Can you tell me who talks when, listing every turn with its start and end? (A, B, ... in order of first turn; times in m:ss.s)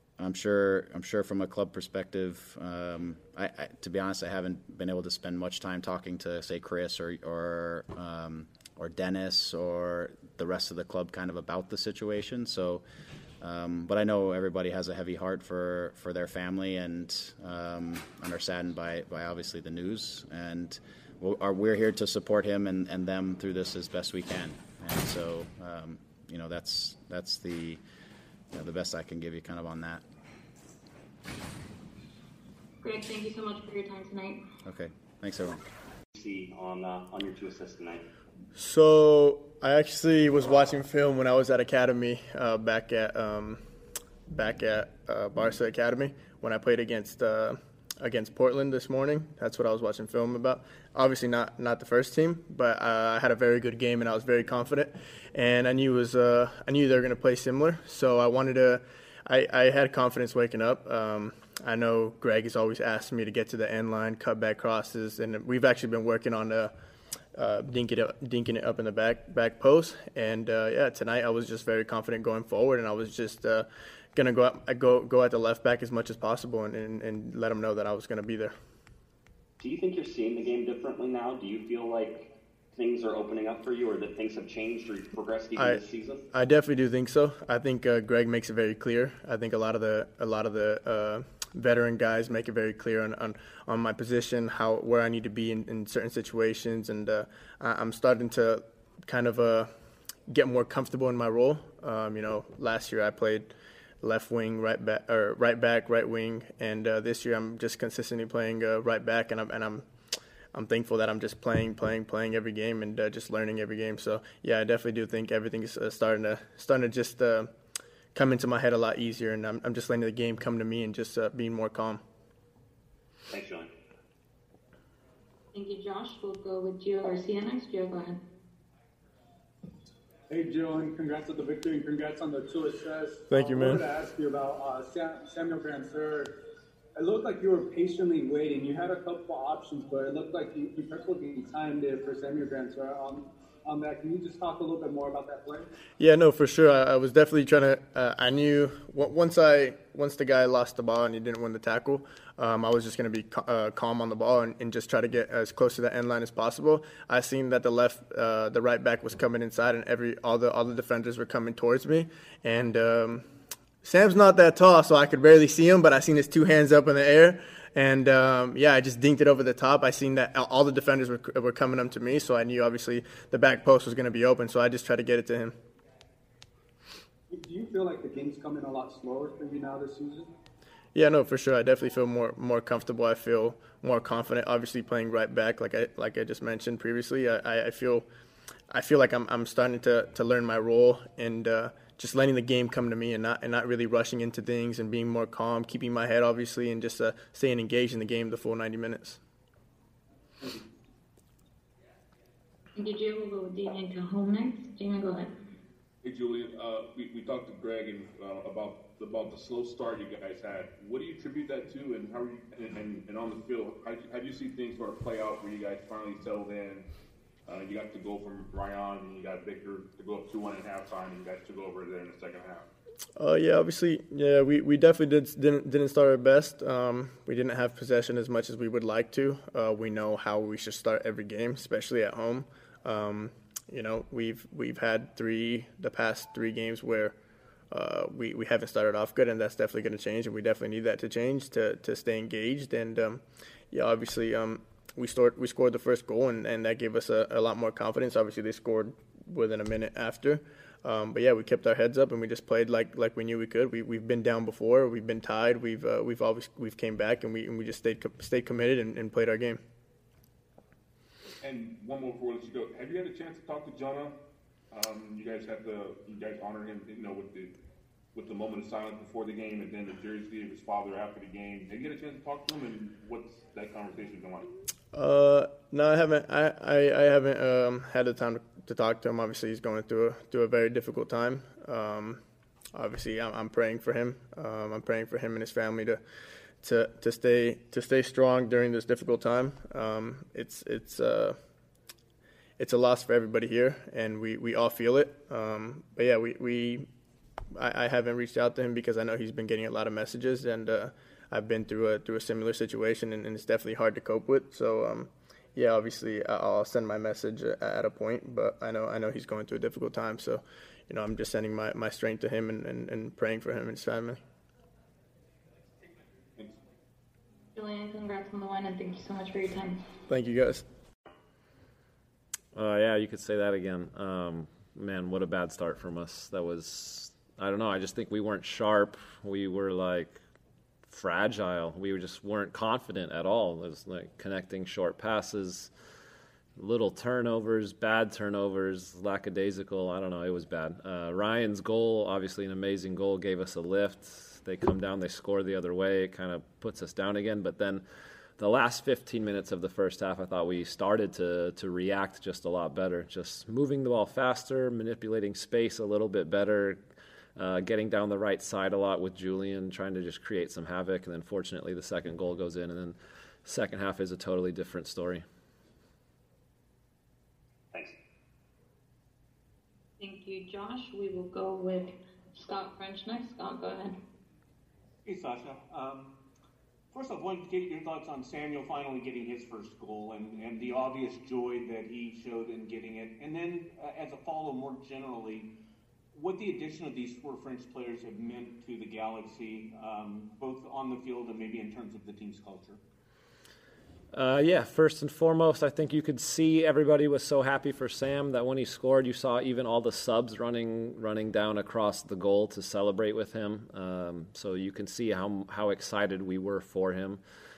0:00.2-0:12.8 A
0:13.4-0:27.8 A
0:28.5-0:30.0 A
0:32.8-0:34.4 B
0:34.6-0:35.6 A
0:36.1-0:38.0 C
0:38.5-0:43.6 D
0:44.3-1:06.7 D
1:07.3-1:18.5 D
1:19.6-1:26.2 C
1:25.6-1:39.7 D
1:40.3-1:49.8 D
1:50.5-1:57.5 D
1:58.1-2:02.0 D
2:03.3-2:03.7 C
2:05.5-2:08.2 B
2:10.3-2:16.3 E
2:13.3-2:13.9 D
2:17.0-2:25.7 E
2:26.0-2:43.2 D
2:43.8-2:55.5 D
2:57.3-3:00.3 E
3:00.9-3:08.0 D
3:08.7-3:19.2 D
3:22.8-3:25.3 B
3:26.0-3:36.8 F
3:37.5-3:42.7 F
3:43.2-3:57.1 D
3:57.7-4:19.6 D
4:21.4-4:24.1 F
4:24.7-4:27.5 F
4:28.1-4:34.5 F
4:34.9-4:42.2 D
4:42.7-4:46.0 D
4:46.6-4:51.4 D
4:52.6-4:56.9 D
4:57.6-5:14.2 D
5:17.5-5:19.8 B
5:20.1-5:20.6 D
5:22.5-5:30.1 G
5:30.9-5:35.7 G
5:36.6-5:47.8 G
5:48.4-5:56.8 G
5:57.4-6:05.2 G
6:10.0-6:14.0 B
6:15.0-6:16.1 H
6:16.9-6:25.5 H
6:26.1-6:32.8 H
6:34.1-6:47.2 G